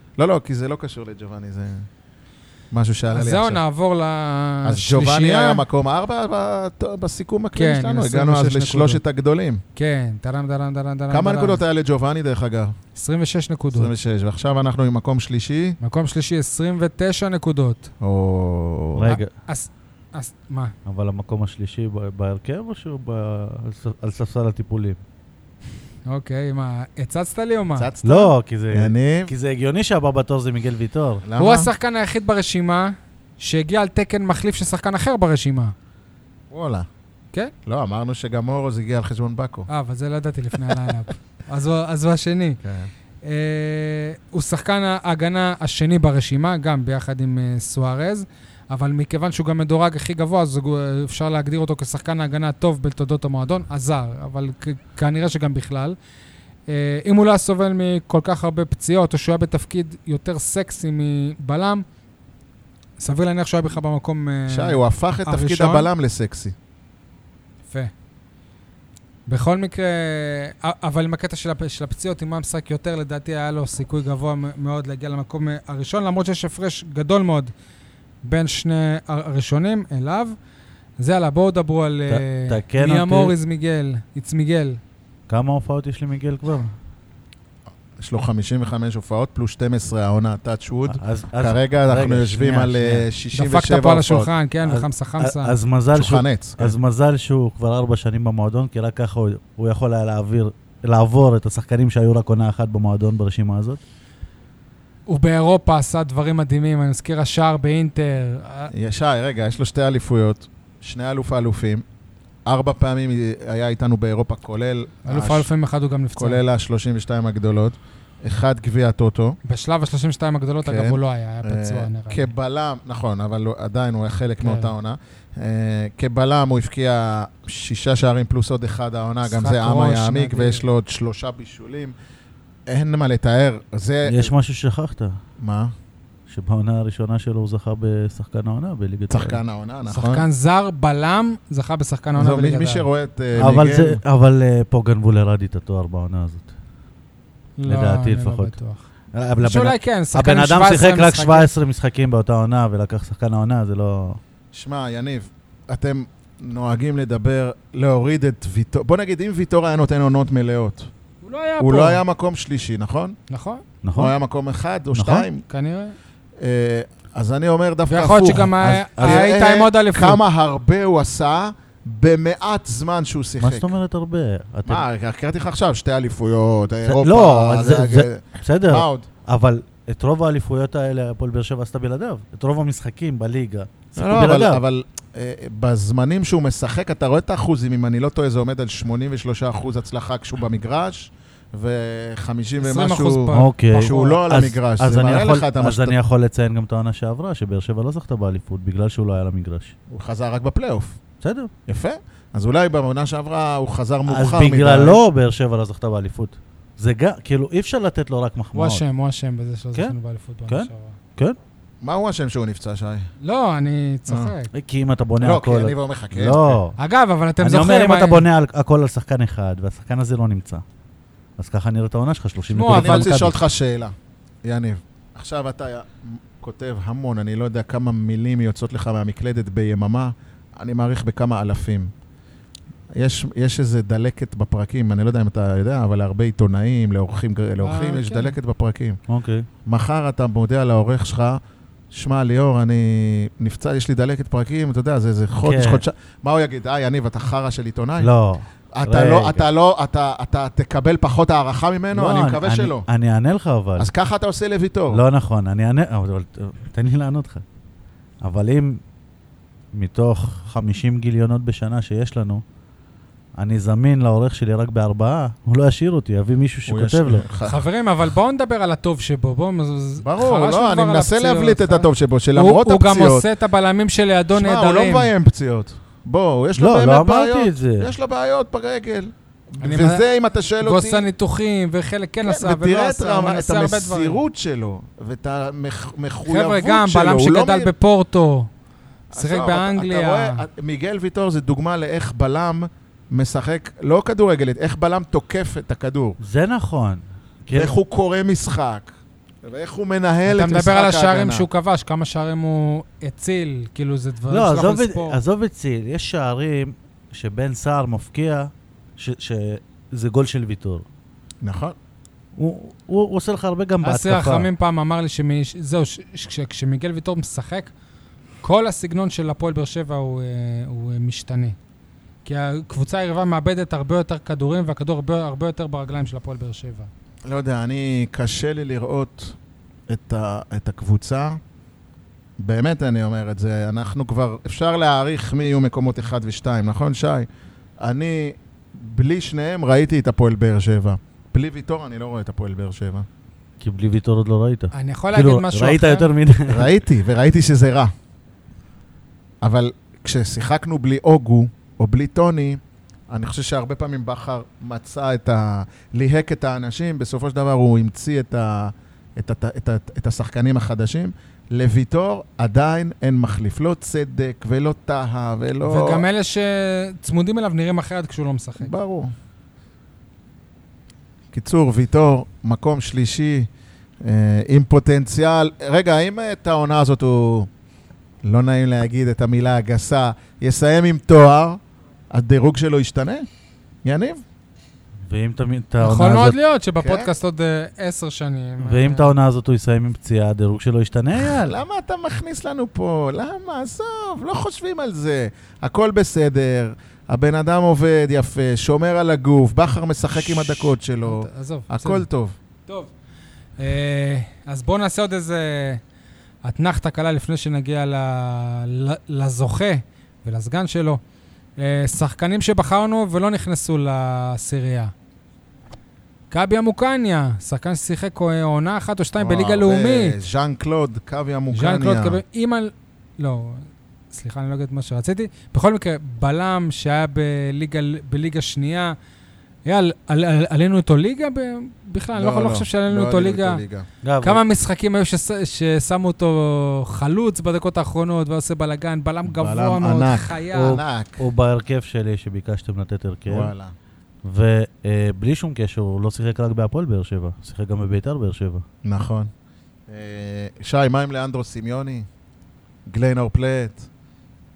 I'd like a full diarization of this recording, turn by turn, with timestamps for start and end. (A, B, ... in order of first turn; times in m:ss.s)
0:00.2-0:01.9 A
0:02.7-0:03.6 A
0:03.1-0:05.6 B
0:04.6-0:09.6 A
0:07.5-0:09.0 B
0:09.8-0:11.6 B
0:11.1-0:12.7 A
0:12.9-0:13.9 B
0:13.7-0:15.8 A
0:15.8-0:17.9 B
0:18.0-0:19.1 A
0:18.9-0:19.3 C
0:19.0-0:20.7 B
0:20.8-0:25.0 C
0:26.0-0:27.9 B
0:27.8-0:29.3 A
0:28.0-0:31.2 C
0:31.2-0:31.7 A
0:31.4-0:35.7 B
0:36.5-0:36.9 A
0:37.6-0:39.7 A
0:39.7-0:42.6 B
0:42.6-0:42.9 A
0:43.2-0:56.0 B
0:56.7-1:01.8 B
1:03.0-1:05.9 B
1:04.5-1:06.5 A
1:09.3-1:17.5 B
1:18.2-1:20.4 B
1:21.0-1:24.8 B
1:22.1-1:23.3 C
1:25.3-1:26.7 C
1:28.0-1:34.3 A
1:31.0-1:33.0 C
1:33.3-1:35.5 B
1:34.6-1:43.8 C
1:35.9-1:36.8 A
1:45.1-1:48.7 B
1:48.7-1:51.8 A
1:52.4-1:55.5 A
1:55.0-1:56.4 B
1:56.2-1:59.4 A
1:59.4-2:02.3 B
2:00.6-2:11.9 A
2:04.4-2:04.7 B
2:09.2-2:10.6 B
2:12.7-2:14.3 A
2:14.0-2:15.2 C
2:15.4-2:15.7 A
2:16.3-2:19.4 C
2:19.1-2:20.2 A
2:19.9-2:22.8 B
2:22.1-2:24.0 A
2:23.4-2:26.5 C
2:27.6-2:28.9 B
2:27.7-2:28.5 C
2:29.1-2:34.2 C
2:29.4-2:31.5 B
2:34.5-2:40.9 A
2:41.2-2:42.0 B
2:41.6-2:43.2 A
2:43.3-2:43.6 B
2:43.8-2:44.1 C
2:43.9-2:45.4 A
2:44.9-2:45.3 C
2:45.5-2:45.9 B
2:46.4-2:53.7 A
2:47.9-2:50.2 B
2:48.6-2:49.3 C
2:53.4-2:54.8 C
2:54.6-2:59.1 A
2:56.8-3:04.6 C
3:04.0-3:16.0 A
3:12.6-3:14.2 B
3:13.3-3:19.7 C
3:19.9-3:21.0 A
3:21.2-3:21.5 C
3:21.7-3:25.0 A
3:24.1-3:28.8 C
3:28.5-3:31.0 B
3:30.5-3:31.4 C
3:31.8-3:33.1 A
3:33.2-3:34.5 B
3:34.1-3:34.3 A
3:34.5-3:36.7 C
3:35.2-3:36.6 A
3:36.8-3:38.2 B
3:37.4-3:40.6 C
3:41.4-3:43.4 C
3:42.5-3:43.2 B
3:42.7-3:51.9 A
3:52.9-3:59.0 A
3:57.6-3:58.3 B
3:59.1-3:59.5 C
3:59.6-4:01.4 A
4:01.9-4:08.1 A
4:05.4-4:05.8 C
4:08.0-4:09.5 C
4:08.7-4:12.8 A
4:11.9-4:13.9 C
4:13.8-4:15.0 A
4:14.9-4:17.4 C
4:18.2-4:18.8 C
4:19.7-4:22.4 C
4:23.4-4:27.2 C
4:26.7-4:27.6 A
4:27.4-4:35.1 B
4:30.0-4:33.3 A
4:34.3-4:41.1 A
4:36.6-4:37.9 C
4:39.6-4:40.0 B
4:40.6-4:44.2 B
4:42.2-4:47.7 A
4:46.3-4:48.5 B
4:49.1-4:56.2 A
4:49.1-4:50.4 B
4:56.2-4:57.7 C
4:57.5-4:58.9 A
4:59.4-5:01.4 A
5:00.3-5:05.2 B
5:04.3-5:10.8 C
5:11.4-5:11.8 A
5:12.4-5:14.5 C
5:13.8-5:17.7 B
5:18.4-5:21.6 B
5:22.2-5:26.9 B
5:27.2-5:29.4 A
5:29.9-5:31.4 A
5:32.4-5:37.3 A
5:37.8-5:43.0 A
5:43.6-5:46.7 C
5:44.7-5:46.1 B
5:46.5-5:47.9 A
5:49.4-6:06.0 A
6:05.6-6:08.7 B
6:08.6-6:09.1 A
6:11.3-6:13.5 A
6:14.0-6:17.5 A
6:18.2-6:23.2 A
6:23.8-6:24.2 A
6:25.1-6:26.4 C
6:25.8-6:29.1 B
6:26.8-6:27.1 A
6:28.6-6:31.6 C
6:31.2-6:42.4 A
6:40.2-6:42.0 B
6:42.7-6:42.9 B
6:43.6-6:45.8 B
6:46.4-6:51.0 B
6:51.6-6:54.9 B
6:56.3-7:00.2 B
6:59.2-7:02.2 A
7:01.5-7:09.0 B
7:09.6-7:13.6 B
7:12.2-7:13.9 A
7:14.0-7:14.4 C
7:14.2-7:20.8 B
7:19.2-7:21.2 A
7:20.5-7:23.5 C
7:23.3-7:23.7 A
7:24.2-7:28.6 C
7:28.8-7:29.3 A
7:29.9-7:32.1 A
7:32.9-7:33.9 A